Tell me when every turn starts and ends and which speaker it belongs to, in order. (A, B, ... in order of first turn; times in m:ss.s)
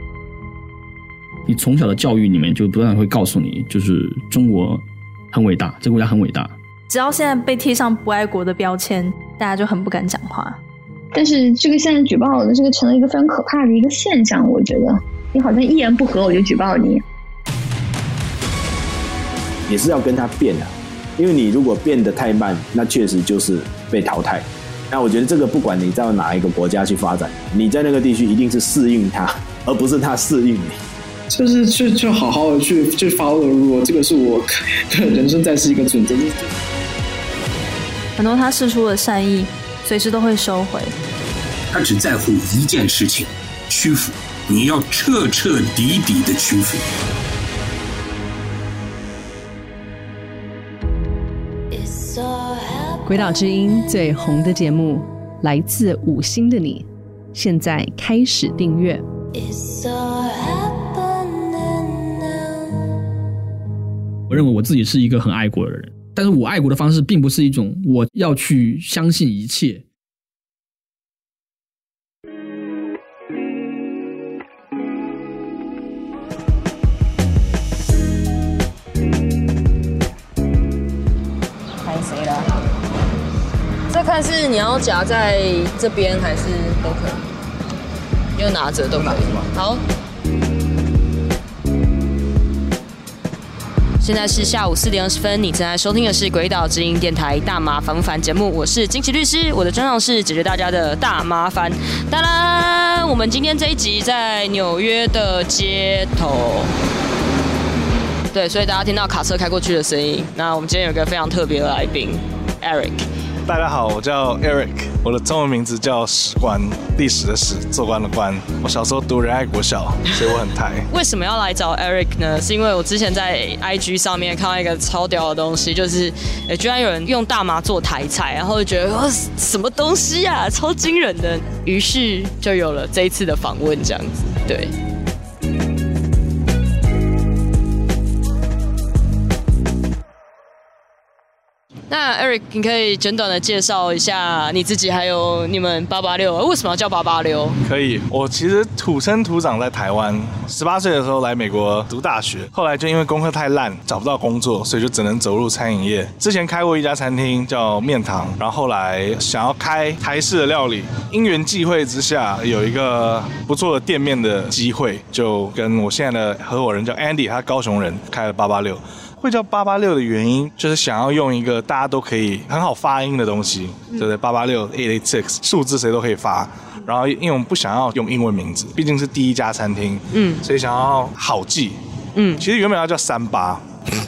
0:01.5-0:06.5 A
0:06.9-0:10.6 B
0:11.1-0:17.0 C
0:19.7-0:30.8 D
0:31.3-0:36.5 E
0:38.2-0:41.0 B
0:41.7-0:46.9 F
0:53.0-0:59.0 G
1:04.3-1:09.8 A
1:21.8-1:22.6 H
1:23.9-1:27.3 H
1:28.4-1:29.8 H
1:29.2-1:29.5 I
1:34.0-1:46.7 H
1:48.3-1:53.1 H
1:53.5-2:00.9 I
2:00.9-2:14.7 H
2:21.9-2:27.6 H
2:27.6-3:01.8 I
3:00.1-3:00.4 H
3:02.2-3:02.5 H
3:02.4-3:03.7 I